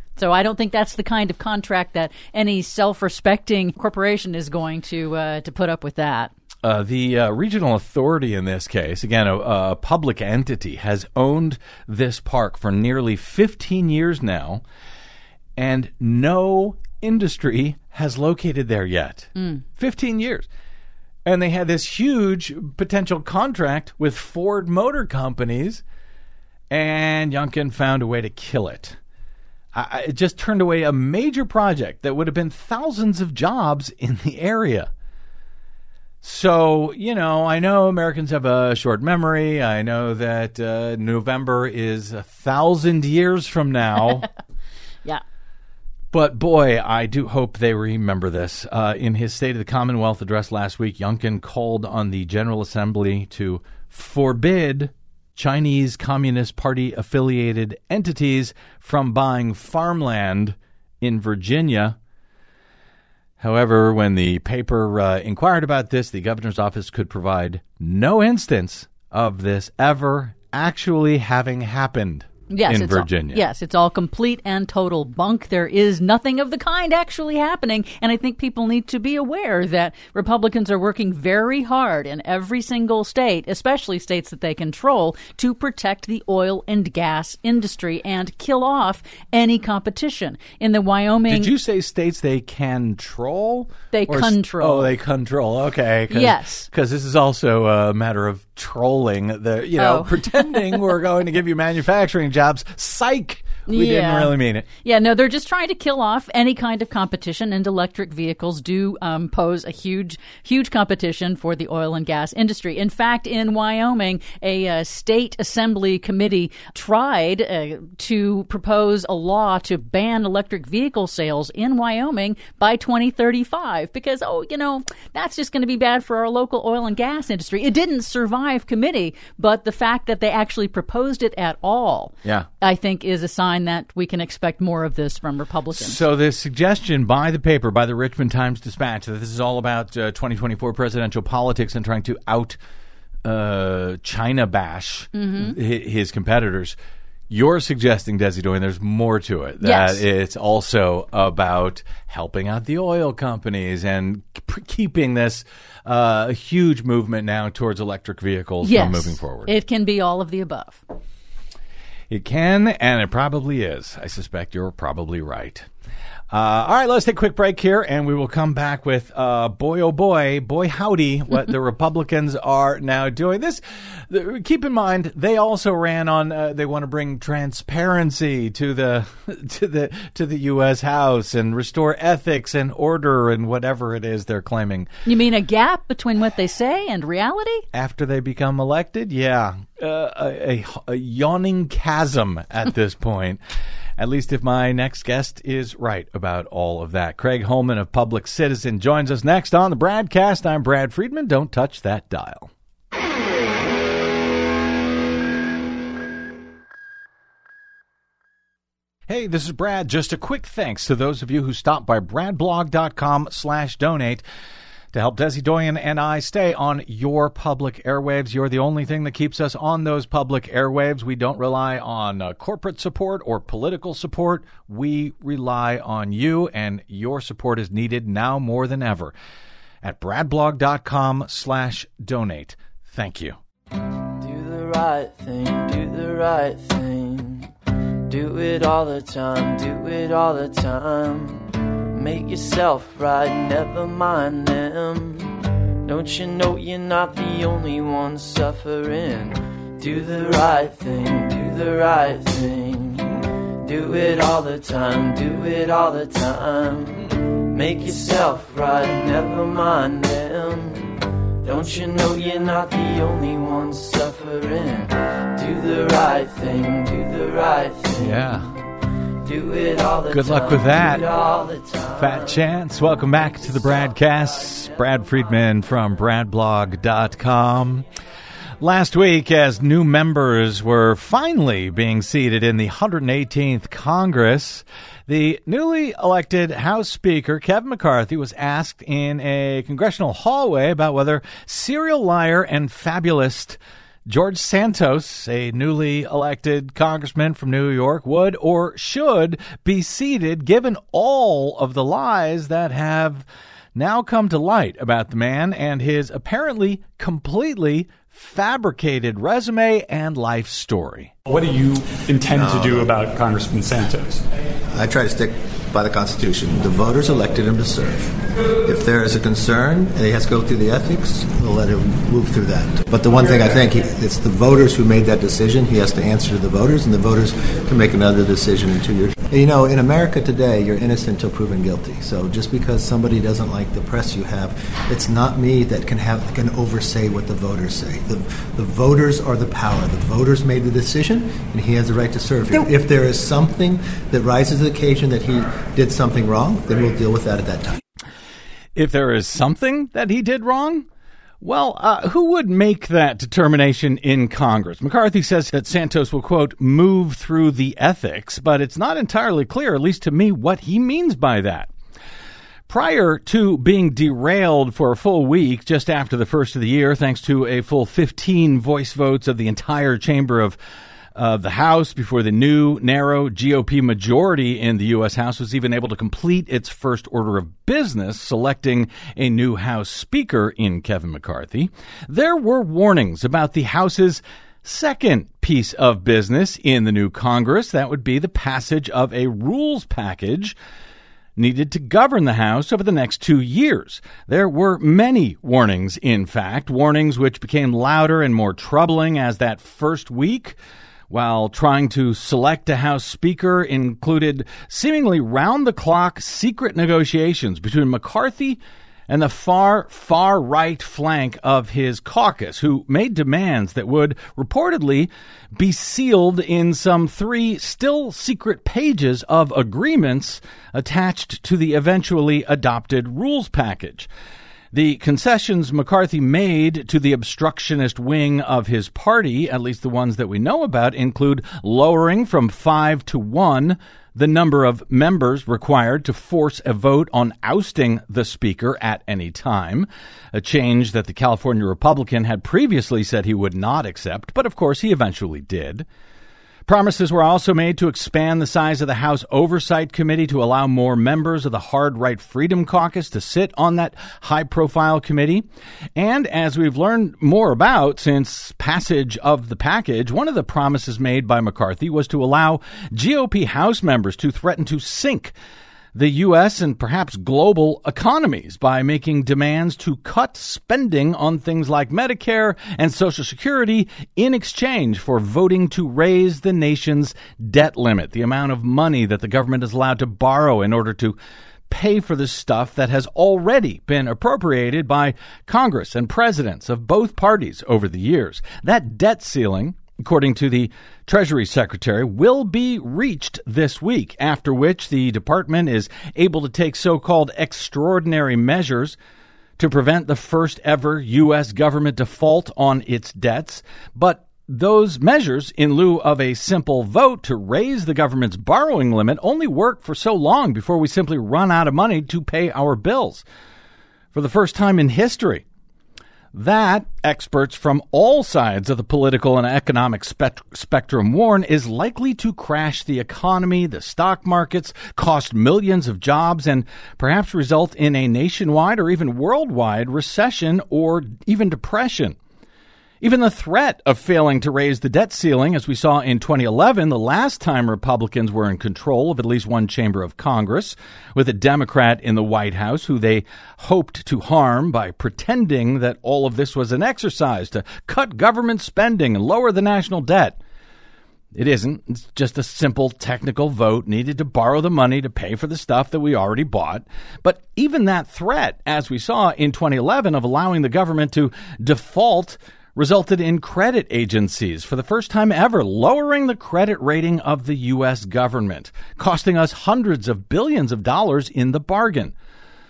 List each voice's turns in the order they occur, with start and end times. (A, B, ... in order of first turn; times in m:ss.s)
0:00.2-0:06.3 A
0:06.6-0:14.6 B
0:15.6-0:20.5 B
0:19.4-0:19.6 A
0:21.2-0:25.8 B
0:26.7-0:29.0 B
0:29.7-0:34.9 B
0:36.2-0:44.3 B
0:46.1-1:02.0 B
1:03.4-1:13.4 B
1:12.5-1:31.5 A
1:31.3-1:44.6 B
1:33.9-1:35.0 A
1:36.1-1:36.7 A
1:39.8-1:41.0 A
1:43.7-2:16.0 A
2:15.7-2:22.6 B
2:23.2-2:26.8 B
2:25.1-2:25.6 A
2:27.3-2:39.5 B
2:29.6-2:30.0 A
2:38.6-2:40.8 A
2:42.1-2:45.7 B
2:46.3-3:04.9 B
3:05.0-3:07.7 A
3:07.7-3:13.4 B
3:14.0-3:22.5 B
3:29.1-3:34.2 B
3:34.9-3:49.1 B
3:49.8-3:53.4 B
3:54.2-3:57.5 C
3:58.1-4:28.4 C
4:28.0-4:28.5 B
4:29.2-4:32.4 C
4:30.1-4:31.0 B
4:32.0-4:37.8 B
4:38.6-5:11.1 B
5:11.2-5:14.2 D
5:12.3-5:13.0 E
5:14.7-5:47.8 E
5:48.8-5:50.8 B
5:51.4-6:01.7 B
6:02.7-6:10.6 B
6:11.2-6:30.6 B
6:31.4-6:40.6 B
6:41.1-7:04.1 B
7:04.7-7:25.8 B
7:26.7-7:45.3 B
7:45.9-8:01.2 B
8:01.7-8:19.0 B
8:19.6-8:33.2 B
8:34.1-8:35.4 B
8:36.3-8:52.2 B
8:53.0-9:10.4 B
9:11.3-9:32.1 B